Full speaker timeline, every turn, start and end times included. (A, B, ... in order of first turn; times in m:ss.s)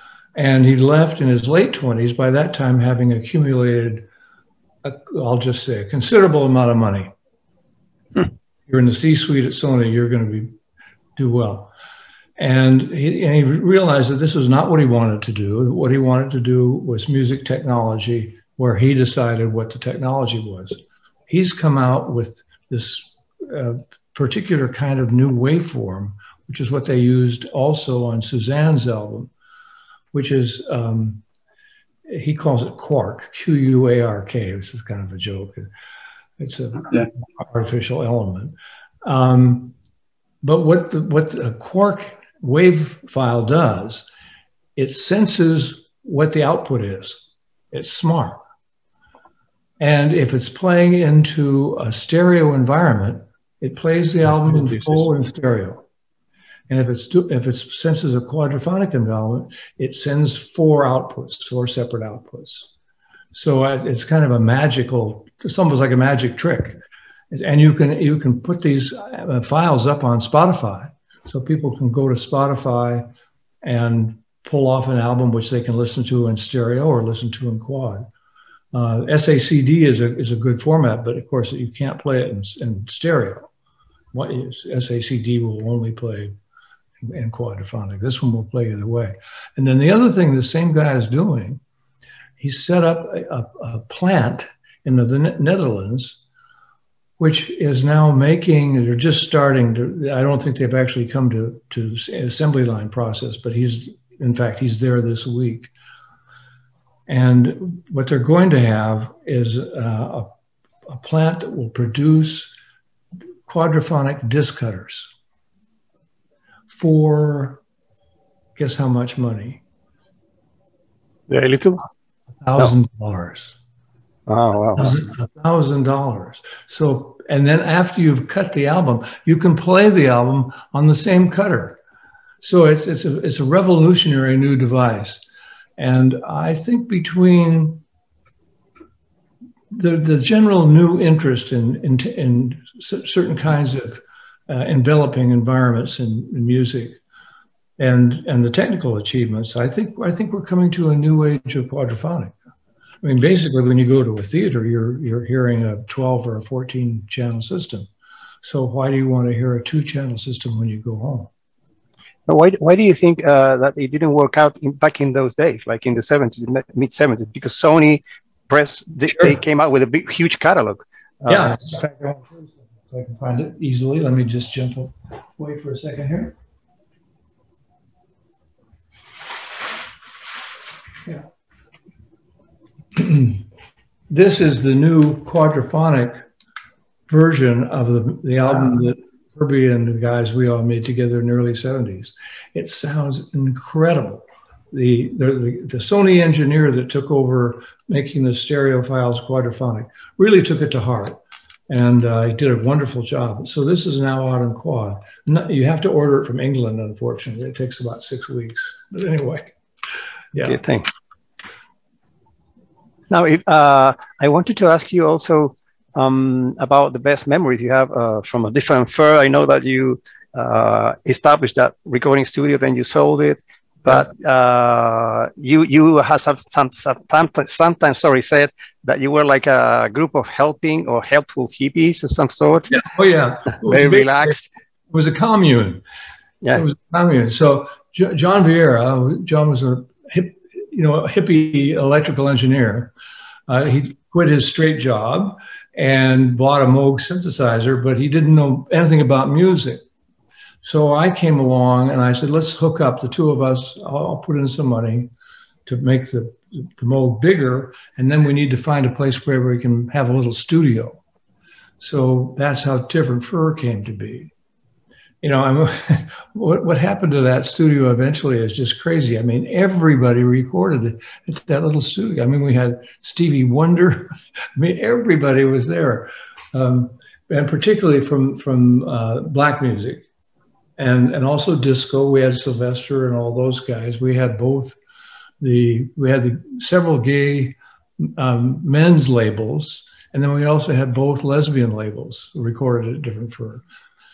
0:00.3-0:04.0 A
0:04.8-0:07.1 A
0:08.7-0:10.5 A
0:11.2-0:11.7 A
0:12.4-0:29.3 A
0:30.1-0:31.2 A
0:32.1-0:35.7 A
0:36.4-0:39.7 A
0:40.4-0:44.0 A
0:44.8-0:48.4 A
0:49.8-0:55.8 A
0:56.7-1:02.7 A
1:03.3-1:06.8 A
1:07.3-1:13.0 A
1:13.6-1:18.1 A
1:18.7-1:23.5 A
1:24.1-1:26.3 A
1:27.0-1:31.6 A
1:32.4-1:36.2 A
1:37.2-1:45.7 A
1:47.1-1:50.3 A
1:50.8-1:52.5 A
1:53.4-1:55.1 A
1:56.7-1:57.6 A
1:58.6-1:59.6 A
2:01.3-2:01.8 B
2:02.4-2:03.6 A
2:04.3-2:05.0 B
2:04.8-2:11.8 A
2:12.4-2:15.2 A
2:15.8-2:17.8 A
2:19.7-2:27.0 A
2:27.8-2:32.3 A
2:33.0-2:37.9 A
2:38.4-2:41.3 A
2:42.3-2:51.6 B
2:51.3-2:56.3 A
3:02.9-3:03.4 A
3:04.1-3:06.2 A
3:07.1-3:29.5 A
3:30.3-3:30.6 A
3:30.4-3:30.9 B
3:33.1-3:52.8 B
3:52.7-3:54.4 A
3:53.6-3:54.5 B
3:54.9-3:55.8 A
3:56.5-4:02.9 A
4:03.5-4:09.8 A
4:10.6-4:15.1 A
4:15.6-4:21.0 A
4:21.8-4:24.3 A
4:25.2-4:40.0 A
4:40.8-4:44.8 A
4:45.4-4:53.6 A